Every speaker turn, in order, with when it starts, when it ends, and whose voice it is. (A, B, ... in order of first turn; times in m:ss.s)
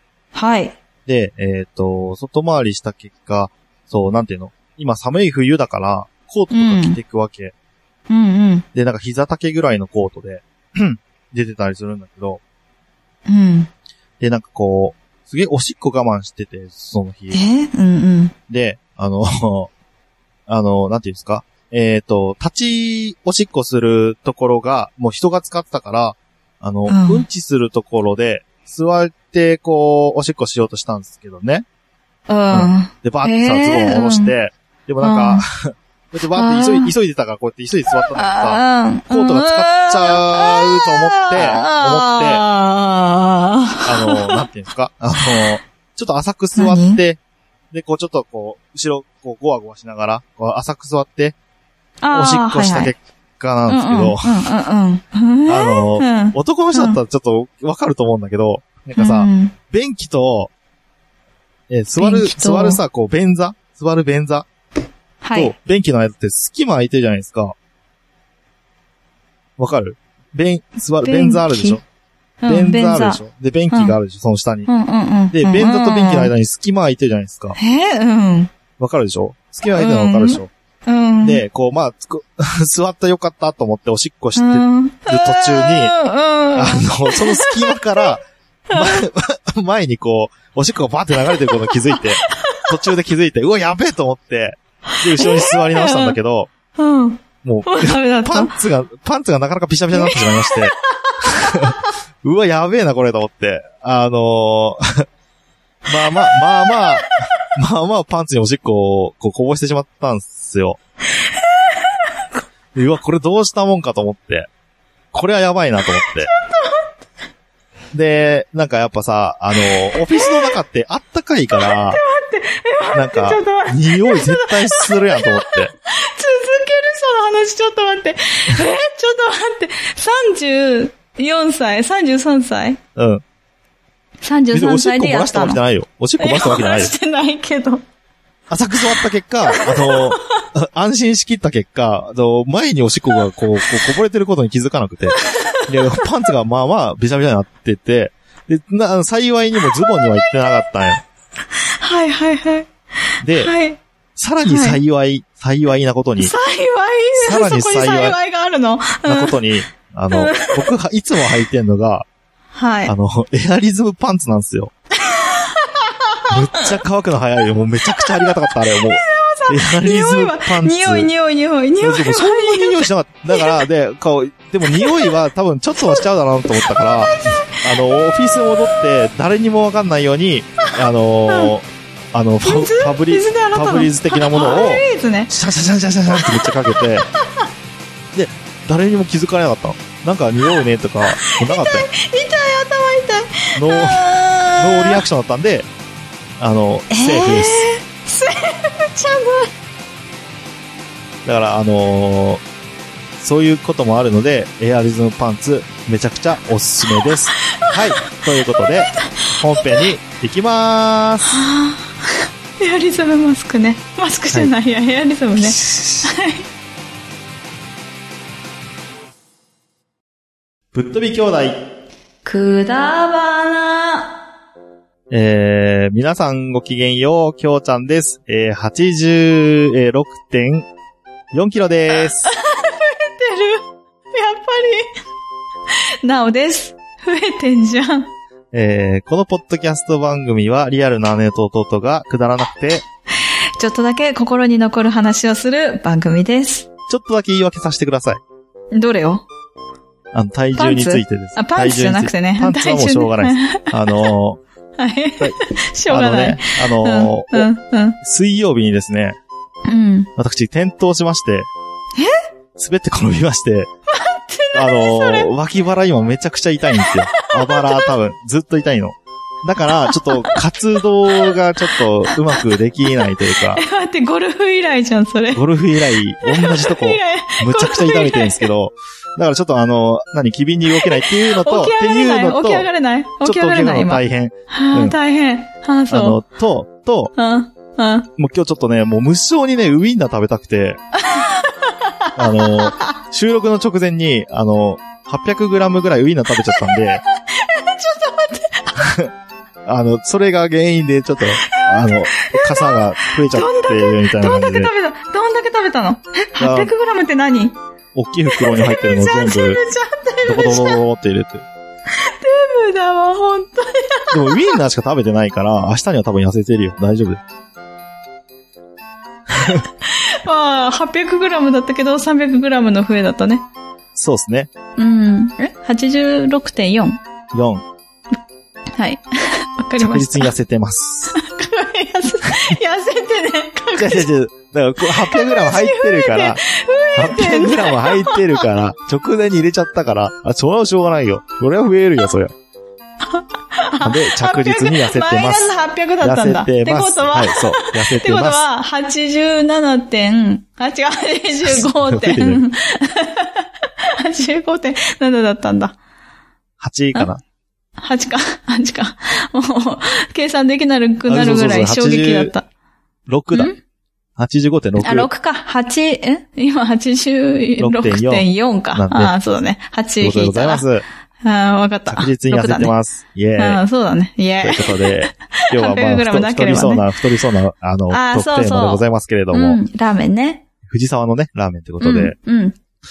0:00.3-0:00.8 A
0:01.1-0:07.5 B
0:06.5-0:07.0 A
0:08.1-0:08.6 A
0:08.7-0:12.4 B
0:13.3-0:13.7 A
0:14.2-0:17.4 B
0:17.3-0:18.3 A
0:18.5-0:19.7 B
0:20.5-0:31.7 B
0:26.9-0:27.3 A
0:32.3-0:34.3 A
0:32.5-0:42.4 B
0:35.0-0:35.4 A
0:36.3-0:36.9 A
0:38.1-0:44.5 A
0:43.9-0:47.2 B
0:45.2-0:45.6 A
0:46.6-0:47.0 A
0:47.7-0:51.4 B
0:52.0-0:52.9 A
0:52.1-0:54.4 B
0:53.7-0:57.0 A
0:55.5-1:00.5 B
0:59.0-0:59.6 A
1:01.7-1:04.5 B
1:02.0-1:02.8 A
1:05.2-1:05.6 A
1:05.3-1:07.6 B
1:09.6-1:11.8 B
1:11.0-1:11.8 A
1:12.4-1:14.0 A
1:12.5-1:14.7 B
1:14.7-1:16.3 A
1:15.3-1:17.6 B
1:17.6-1:18.5 A
1:18.8-1:20.5 B
1:19.6-1:21.4 A
1:21.2-1:25.9 B
1:24.4-1:28.2 A
1:26.6-1:36.5 B
1:28.7-1:29.1 A
1:31.2-1:32.7 A
1:34.9-1:36.2 A
1:36.8-1:38.5 A
1:37.4-1:45.0 B
1:39.9-1:41.9 A
1:45.9-1:50.8 B
1:46.3-1:47.1 A
1:51.3-1:52.2 A
1:52.8-1:54.5 B
1:55.1-1:56.3 B
1:56.0-1:56.9 A
1:57.9-2:02.0 B
1:59.6-2:00.6 A
2:01.6-2:12.8 A
2:02.9-2:05.7 B
2:13.0-2:13.2 B
2:14.2-2:15.6 A
2:14.5-2:16.9 B
2:16.2-2:17.8 A
2:18.5-2:25.2 B
2:18.9-2:20.4 A
2:25.1-2:26.1 A
2:25.7-2:31.0 B
2:29.6-2:30.2 A
2:31.5-2:32.7 A
2:33.2-2:33.5 B
2:33.4-2:33.8 A
2:34.2-2:36.3 B
2:34.4-2:34.8 A
2:36.2-2:39.4 A
2:37.2-2:38.2 B
2:39.0-2:42.1 B
2:40.1-2:40.7 A
2:42.5-2:42.9 A
2:42.9-2:44.7 B
2:45.0-2:46.6 A
2:46.3-2:51.1 B
2:48.0-2:53.6 A
2:51.8-3:07.1 B
2:54.7-2:55.2 A
2:55.8-2:58.8 A
3:02.4-3:05.3 A
3:06.2-3:07.5 A
3:08.1-3:11.9 B
3:10.5-3:15.0 A
3:13.6-3:15.7 B
3:16.4-3:17.7 B
3:16.9-3:19.5 A
3:21.2-3:22.4 B
3:23.2-3:31.4 B
3:26.9-3:29.8 A
3:31.2-3:36.4 A
3:35.4-3:36.1 B
3:40.7-3:41.6 B
3:42.2-3:44.1 A
3:45.1-3:50.7 B
3:51.3-3:52.3 B
3:52.2-3:54.9 A
3:55.7-3:58.1 A
3:58.5-4:02.8 B
4:03.2-4:06.7 A
4:06.9-4:08.2 B
4:08.7-4:09.3 A
4:10.1-4:14.4 B
4:10.6-4:14.1 A
4:14.8-4:18.0 A
4:15.9-4:17.5 B
4:18.0-4:19.2 B
4:19.7-4:20.1 A
4:20.2-4:21.5 B
4:22.0-4:22.2 A
4:22.6-4:23.7 B
4:23.9-4:25.3 A
4:24.5-4:33.6 B
4:26.8-4:28.0 A
4:29.9-4:30.4 A
4:31.1-4:32.4 A
4:33.0-4:38.5 A
4:35.3-4:42.7 B
4:40.7-4:46.2 A
4:43.2-4:45.0 B
4:45.9-4:47.1 B
4:47.2-4:48.1 A
4:48.2-4:50.8 B
4:51.0-4:52.9 A
4:52.2-4:57.0 B
4:56.6-4:58.9 A
4:58.8-4:59.1 B
4:59.7-5:04.7 B
5:01.4-5:07.6 A
5:06.4-5:06.7 B
5:07.9-5:09.6 B
5:08.3-5:10.8 A
5:10.2-5:11.4 B
5:11.9-5:14.6 A
5:14.1-5:17.2 B
5:19.6-5:23.4 A
5:24.0-5:24.5 B
5:24.8-5:27.0 A
5:27.3-5:27.6 B
5:28.8-5:30.3 A
5:29.8-5:31.2 B
5:31.1-5:34.1 A
5:33.8-5:36.4 B
5:34.8-5:38.5 A
5:37.0-5:42.3 B
5:43.1-5:55.8 A
5:43.8-5:48.4 B
5:51.4-5:52.4 B
5:56.6-5:57.2 B
5:57.8-6:02.5 A
6:01.1-6:02.3 B
6:03.1-6:03.5 B
6:03.3-6:03.6 A
6:04.2-6:05.1 B
6:04.8-6:10.7 A
6:07.6-6:09.2 B
6:10.0-6:10.8 B
6:11.2-6:12.7 A
6:11.9-6:13.6 B
6:13.4-6:17.0 A
6:14.4-6:19.6 B
6:17.9-6:20.4 A
6:20.7-6:22.2 B
6:21.8-6:22.6 A